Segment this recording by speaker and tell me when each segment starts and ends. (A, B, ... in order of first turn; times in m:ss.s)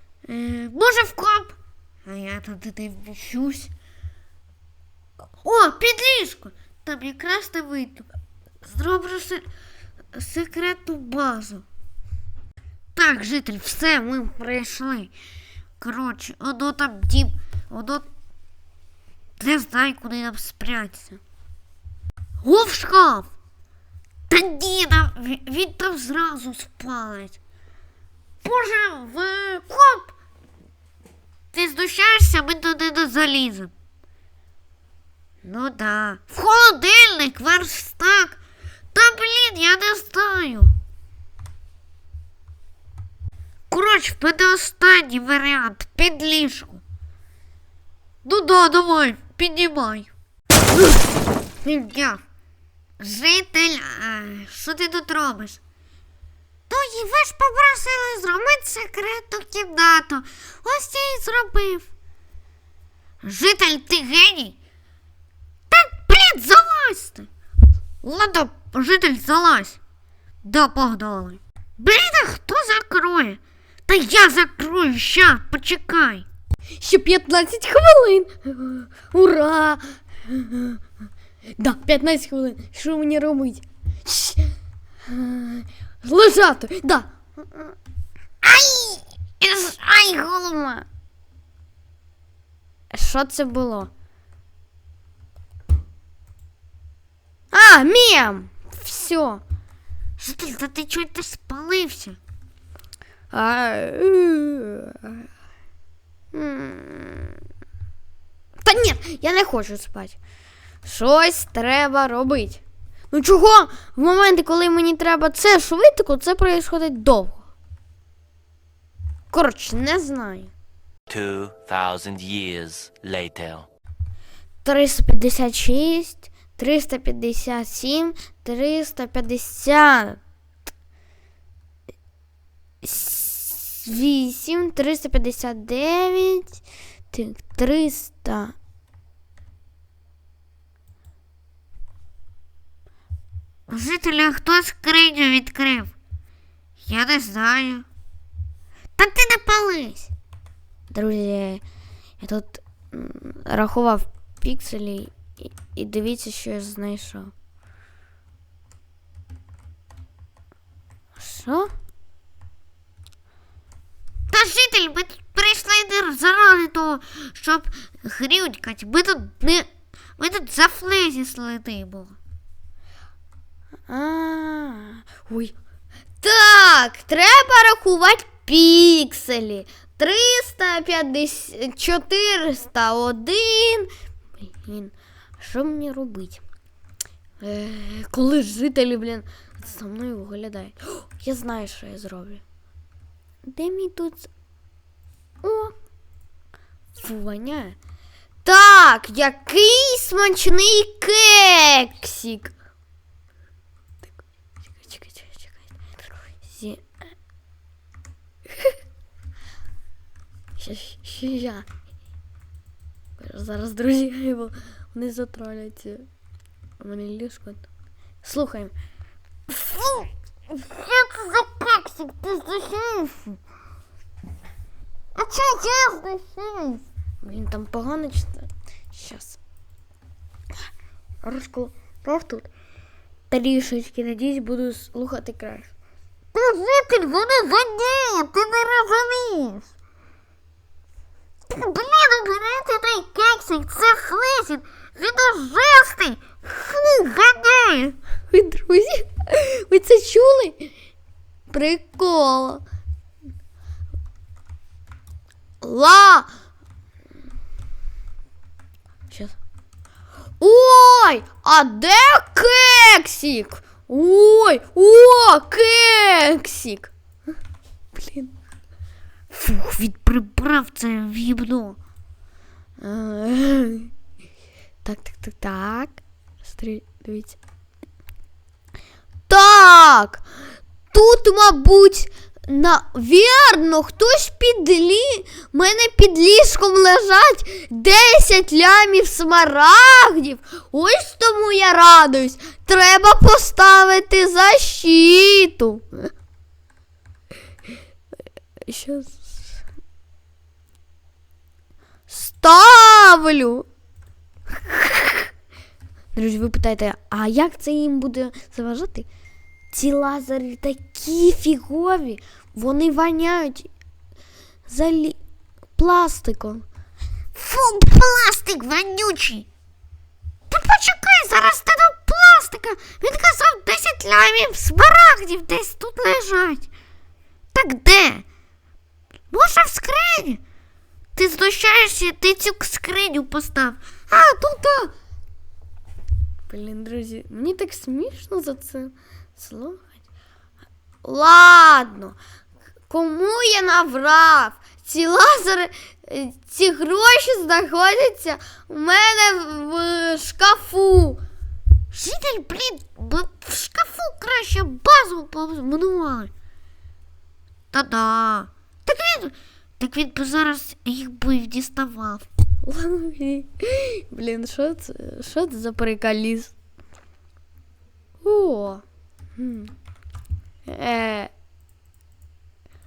0:00.3-0:03.7 A
0:05.4-0:08.1 A
0:08.6-0:09.4 A
0:10.1-0:11.6 A
0:12.9-0:15.1 A
0:15.8-0:18.0 A
0:19.4-0:21.2 A
0:22.4-0:23.3 A
0:24.3-0:27.4 A
0:28.4-0:30.1 A
0:31.5-0:33.7 A
0:35.4-0:38.4 A
0:38.9-0:40.7 A
0:43.7-0:46.8 A
0:48.2-0:50.1 A
0:51.6-0:52.2 A
0:53.0-0:55.6 A
0:56.7-1:01.9 A
1:03.2-1:04.6 A
1:05.7-1:07.3 A
1:08.0-1:09.8 A
1:10.4-1:16.2 A
1:16.8-1:20.8 B
1:21.6-1:24.5 B
1:25.0-1:27.7 B
1:28.4-1:30.9 B
1:32.9-1:33.9 B
1:37.5-1:39.4 B
1:40.2-1:42.2 A
1:43.3-1:45.2 B
1:46.3-1:47.4 B
1:48.6-1:50.2 B
1:50.8-1:57.4 B
1:59.3-2:00.5 B
2:01.1-2:03.7 C
2:04.6-2:10.2 B
2:12.8-2:16.6 B
2:17.1-2:18.5 B
2:23.7-2:25.9 A
2:26.8-2:27.8 A
2:29.0-2:30.1 A
2:30.9-2:31.6 B
2:32.2-2:37.3 B
2:41.2-2:41.7 B
2:44.3-2:52.2 A
2:53.9-2:55.5 B
2:56.2-3:06.4 B
3:07.4-3:12.4 B
3:13.5-3:14.3 B
3:15.4-3:15.7 B
3:17.0-3:17.8 B
3:18.4-3:22.5 B
3:24.8-3:25.7 B
3:26.4-3:26.8 B
3:30.6-3:31.6 B
3:33.2-3:36.0 B
3:36.8-3:37.6 B
3:38.2-3:38.7 B
3:39.5-3:43.4 A
3:45.2-3:46.8 A
3:47.2-3:49.4 B
3:51.2-3:52.5 B
3:53.3-3:55.7 B
3:56.3-3:59.7 A
4:01.5-4:08.0 A
4:08.3-4:10.7 B
4:11.5-4:12.6 B
4:15.6-4:16.3 B
4:19.1-4:19.3 B
4:20.4-4:26.9 B
4:27.9-4:28.3 B
4:29.3-4:31.8 A
4:32.8-4:33.9 B
4:34.8-4:37.4 B
4:39.3-4:40.2 B
4:40.9-4:56.1 B
4:58.6-4:59.3 B
5:02.1-5:03.7 B
5:04.6-5:05.3 B
5:06.1-5:09.1 B
5:09.7-5:13.7 B
5:14.7-5:15.2 B
5:15.8-5:16.6 B
5:17.3-5:19.5 A
5:20.5-5:26.7 A
5:27.5-5:28.2 A
5:29.3-5:30.4 A
5:31.2-5:34.9 A
5:36.5-5:39.8 B
5:41.0-5:42.2 B
5:42.9-5:51.2 B
5:51.9-5:56.3 A
5:57.7-6:02.2 A
6:02.6-6:06.5 B
6:08.2-6:08.8 B
6:09.4-6:09.7 B
6:10.7-6:11.3 B